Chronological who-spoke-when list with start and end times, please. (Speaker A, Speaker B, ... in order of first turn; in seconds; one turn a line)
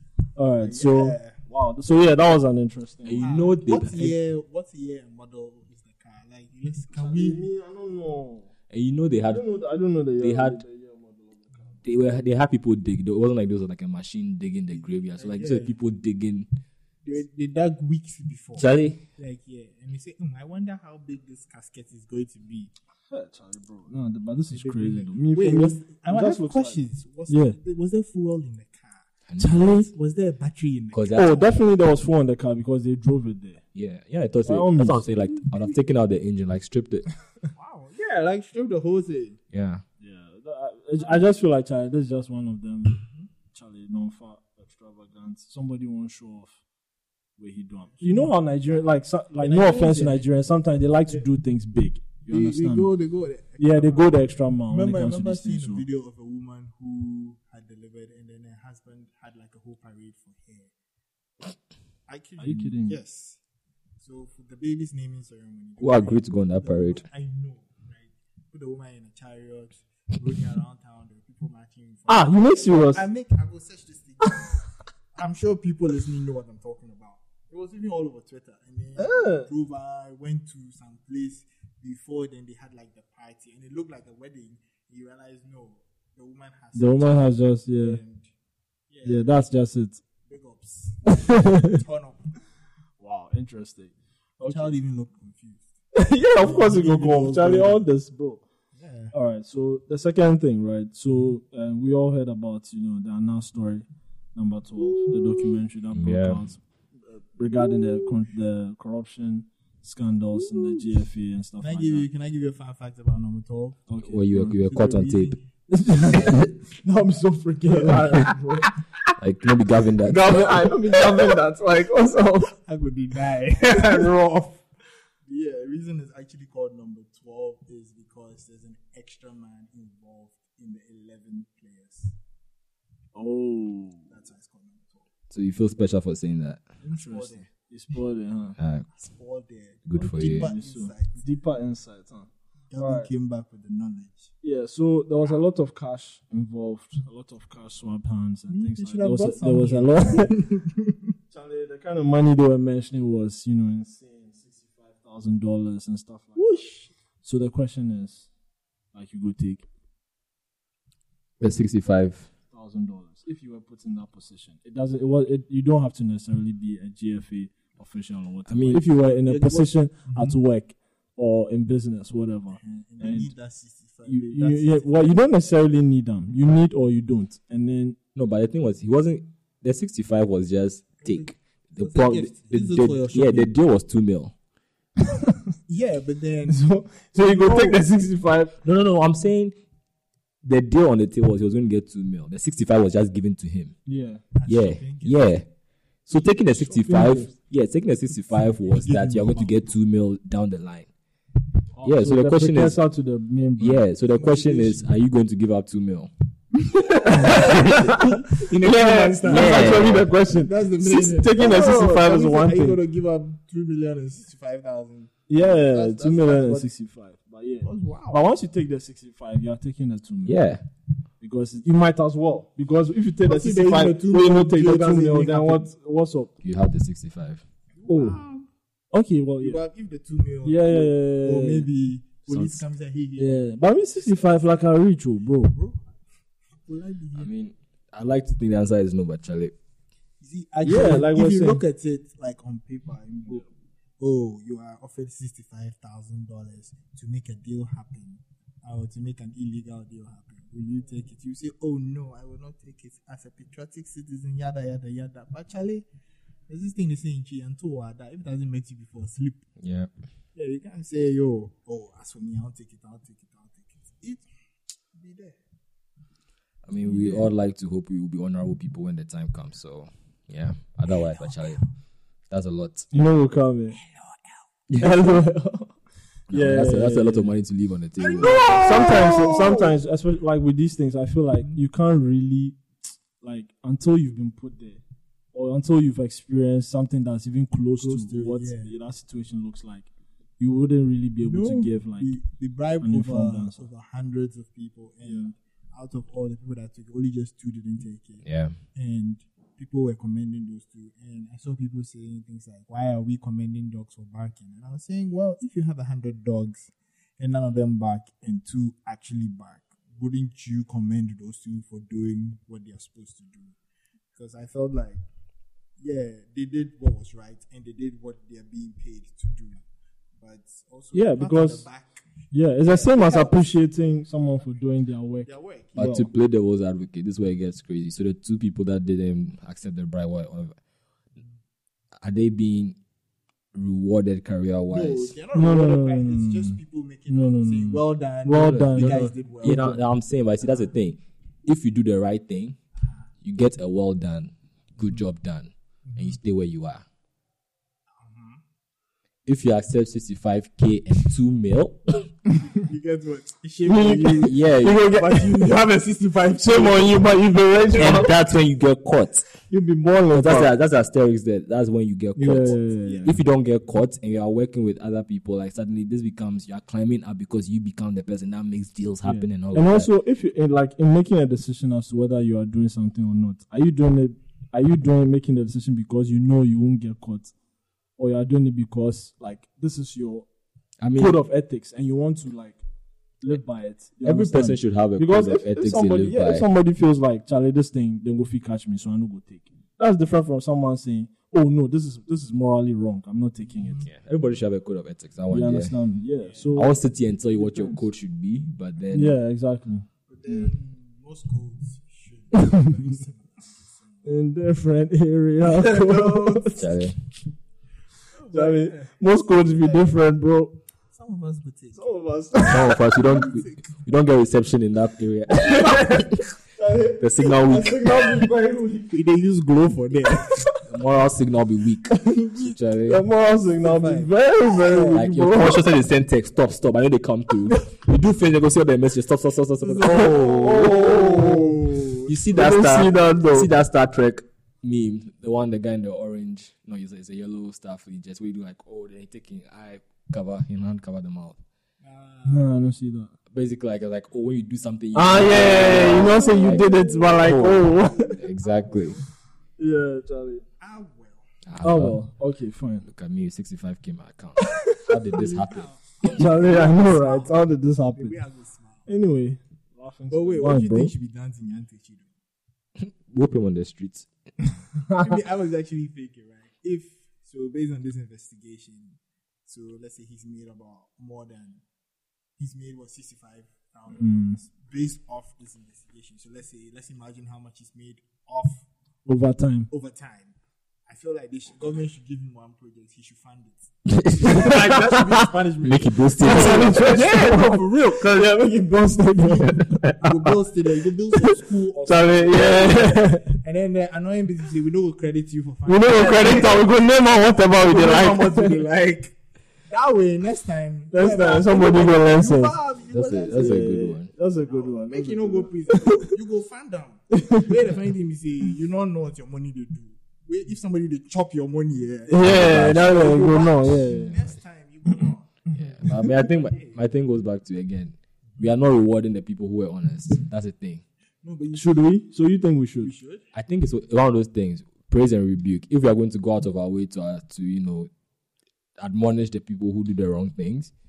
Speaker A: 0.4-3.3
Speaker B: 0.6-1.4
Speaker C: 3.0-4.2
Speaker B: 3.2-7.5
Speaker A: 7.0-8.5
Speaker C: 8.7-9.4
Speaker A: 9.3-11.8
Speaker C: 10.2-10.6
Speaker C: 11.8-16.5
Speaker B: 14.7-15.7
Speaker B: 17.1-22.7
Speaker C: 18.6-19.0
Speaker A: 23.1-27.6
Speaker B: 24.5-29.1
Speaker C: 29.3-29.7
Speaker A: 29.4-29.9
Speaker B: 29.6-31.4
Speaker C: 30.9-31.5
Speaker A: 31.1-33.6
Speaker C: 33.7-37.1
Speaker A: 34.5-35.0
Speaker B: 37.5-39.4
Speaker C: 39.5-39.8
Speaker A: 40.0-43.0
Speaker B: 43.0-43.3
Speaker A: 43.5-46.6
Speaker A: 47.4-52.9
Speaker B: 48.0-48.3
Speaker B: 49.4-50.2
Speaker B: 52.3-54.1
Speaker A: 53.6-55.8
Speaker B: 54.7-60.7
Speaker B: 62.1-63.4
Speaker A: 62.4-63.0
Speaker B: 64.0-74.6
Speaker C: 65.8-67.0
Speaker A: 72.1-73.0
Speaker B: 75.2-88.3
Speaker A: 79.0-79.5
Speaker A: 86.8-88.0
Speaker B: 88.9-89.4
Speaker A: 89.0-90.0
Speaker B: 90.3-92.3
Speaker A: 91.1-91.8
Speaker A: 93.0-94.7
Speaker B: 94.4-95.7
Speaker A: 95.9-98.5
Speaker B: 96.4-97.8
Speaker B: 98.8-99.1
Speaker A: 99.1-112.0
Speaker B: 105.0-105.5
Speaker C: 106.0-106.4
Speaker B: 110.5-110.8
Speaker B: 111.6-113.9
Speaker A: 113.9-114.6
Speaker C: 114.1-115.4
Speaker B: 114.6-115.4
Speaker A: 115.7-118.7
Speaker B: 117.7-118.7
Speaker C: 119.2-120.4
Speaker A: 120.0-122.5
Speaker B: 120.2-121.6
Speaker B: 122.4-124.6
Speaker B: 125.3-132.1
Speaker A: 133.2-134.1
Speaker B: 134.1-135.1
Speaker C: 135.3-136.7
Speaker A: 136.8-138.6
Speaker B: 136.9-137.5
Speaker C: 138.6-138.9
Speaker B: 138.9-141.2
Speaker C: 139.9-140.5
Speaker A: 140.0-143.1
Speaker B: 142.7-144.3
Speaker A: 144.4-150.3
Speaker B: 148.5-151.0
Speaker A: 151.3-156.6
Speaker B: 156.3-156.9
Speaker A: 157.2-158.3
Speaker A: 158.9-159.7
Speaker C: 161.4-162.3
Speaker A: 162.5-173.3
Speaker C: 168.5-168.8
Speaker B: 169.2-170.4
Speaker B: 172.5-175.1
Speaker A: 174.1-178.0
Speaker C: 178.2-184.3
Speaker B: 181.0-183.5
Speaker B: 185.7-187.8
Speaker A: 186.5-188.6
Speaker C: 188.6-189.6
Speaker C: 190.4-193.8
Speaker A: 193.9-194.2
Speaker B: 194.3-195.3
Speaker C: 194.5-195.4
Speaker C: 196.1-200.9
Speaker A: 196.6-197.3
Speaker B: 198.3-199.7
Speaker A: 201.8-203.8
Speaker C: 201.8-202.8
Speaker C: 203.6-206.1
Speaker B: 204.1-204.8
Speaker B: 206.9-216.7
Speaker A: 207.1-212.8
Speaker C: 207.1-207.9
Speaker C: 209.2-210.1
Speaker A: 215.3-220.4
Speaker B: 217.6-218.2
Speaker C: 220.3-220.6
Speaker A: 221.2-226.3
Speaker B: 223.2-225.7
Speaker C: 226.4-227.4
Speaker B: 227.8-228.5
Speaker A: 227.9-228.2
Speaker A: 228.9-229.6
Speaker B: 229.4-233.4
Speaker A: 230.4-231.7
Speaker C: 232.3-232.6
Speaker A: 233.2-235.6
Speaker B: 234.0-234.4
Speaker B: 235.5-235.9
Speaker B: 236.7-237.3
Speaker C: 237.2-239.5
Speaker B: 240.2-243.5
Speaker A: 240.6-241.6
Speaker B: 244.0-255.9
Speaker B: 256.5-259.4
Speaker C: 259.6-259.9
Speaker B: 260.4-264.3
Speaker B: 264.9-265.4
Speaker C: 266.7-271.6
Speaker B: 271.2-271.6
Speaker C: 272.3-272.9
Speaker A: 272.9-273.8
Speaker B: 273.8-274.2
Speaker C: 274.7-275.0
Speaker A: 274.8-275.8
Speaker C: 276.3-278.9
Speaker A: 276.3-277.3
Speaker B: 278.0-279.7
Speaker A: 278.2-282.6
Speaker A: 283.2-284.8
Speaker A: 285.3-292.1
Speaker B: 287.8-288.7
Speaker B: 291.2-313.6
Speaker A: 292.8-293.6
Speaker A: 295.0-295.3
Speaker C: 298.2-298.6
Speaker B: 314.1-315.0
Speaker B: 315.8-319.6
Speaker B: 320.2-322.1
Speaker A: 320.9-321.6
Speaker A: 322.3-326.1
Speaker B: 322.6-323.5
Speaker B: 325.3-326.0
Speaker C: 325.8-330.6
Speaker C: 332.0-332.8
Speaker C: 333.6-335.1
Speaker B: 334.7-339.8
Speaker A: 335.3-336.6
Speaker A: 337.1-339.8
Speaker C: 338.4-342.6
Speaker C: 343.2-346.8
Speaker B: 345.9-346.1
Speaker B: 348.0-348.4
Speaker C: 349.3-352.1
Speaker B: 352.5-358.0
Speaker A: 353.7-355.5
Speaker C: 354.2-354.8
Speaker A: 356.4-358.1
Speaker C: 357.7-359.2
Speaker A: 359.5-360.5
Speaker C: 360.1-369.9
Speaker A: 362.2-363.1
Speaker B: 362.2-363.2
Speaker A: 369.0-377.3
Speaker A: 378.0-380.3
Speaker C: 380.8-381.2
Speaker A: 380.9-382.6
Speaker A: 383.2-393.8
Speaker C: 384.0-386.4
Speaker B: 393.5-393.9
Speaker C: 393.9-395.8
Speaker A: 395.3-396.8
Speaker B: 396.2-396.5
Speaker C: 396.6-399.2
Speaker A: 398.9-400.5
Speaker B: 400.1-404.1
Speaker A: 402.3-402.7
Speaker A: 404.1-406.6
Speaker B: 405.5-406.7
Speaker C: 406.5-407.0
Speaker B: 408.1-408.9
Speaker A: 408.3-410.6
Speaker B: 409.6-409.9
Speaker B: 410.9-411.9
Speaker A: 411.8-412.9
Speaker B: 412.4-413.7
Speaker C: 412.5-416.1
Speaker A: 415.5-418.9
Speaker C: 417.0-417.8
Speaker B: 417.8-420.4
Speaker A: 420.2-420.6
Speaker C: 420.7-423.0
Speaker B: 422.0-422.6
Speaker A: 422.9-425.7
Speaker B: 423.3-425.0
Speaker C: 424.9-430.9
Speaker B: 429.6-432.1
Speaker A: 429.9-431.6
Speaker C: 432.1-441.4
Speaker A: 432.3-433.5
Speaker B: 441.8-442.5
Speaker A: 442.3-443.1
Speaker C: 443.3-449.0
Speaker A: 444.9-448.2
Speaker B: 445.3-449.1
Speaker A: 449.6-450.4
Speaker B: 450.6-451.3
Speaker C: 451.5-452.0
Speaker A: 451.6-452.9
Speaker C: 452.9-455.7
Speaker B: 455.1-458.9
Speaker A: 456.0-458.1
Speaker A: 458.9-460.9
Speaker B: 460.1-462.1
Speaker C: 462.8-464.1
Speaker A: 464.9-465.1
Speaker B: 465.0-471.6
Speaker B: 472.4-478.7
Speaker A: 474.0-474.4
Speaker A: 479.1-479.7
Speaker B: 479.7-480.3
Speaker B: 480.9-488.4
Speaker C: 483.9-487.1
Speaker A: 486.2-490.3
Speaker B: 489.2-496.7
Speaker A: 491.2-493.4
Speaker A: 495.7-498.6
Speaker B: 497.4-499.2
Speaker B: 499.7-503.8
Speaker A: 500.9-502.5
Speaker C: 502.9-504.1
Speaker A: 503.3-506.1
Speaker B: 504.5-516.8
Speaker A: 507.1-507.6
Speaker A: 512.1-514.2
Speaker C: 512.2-514.3
Speaker C: 515.5-520.8
Speaker B: 521.2-521.9
Speaker A: 521.5-522.9
Speaker B: 522.8-523.2
Speaker C: 523.3-527.9
Speaker C: 528.8-530.7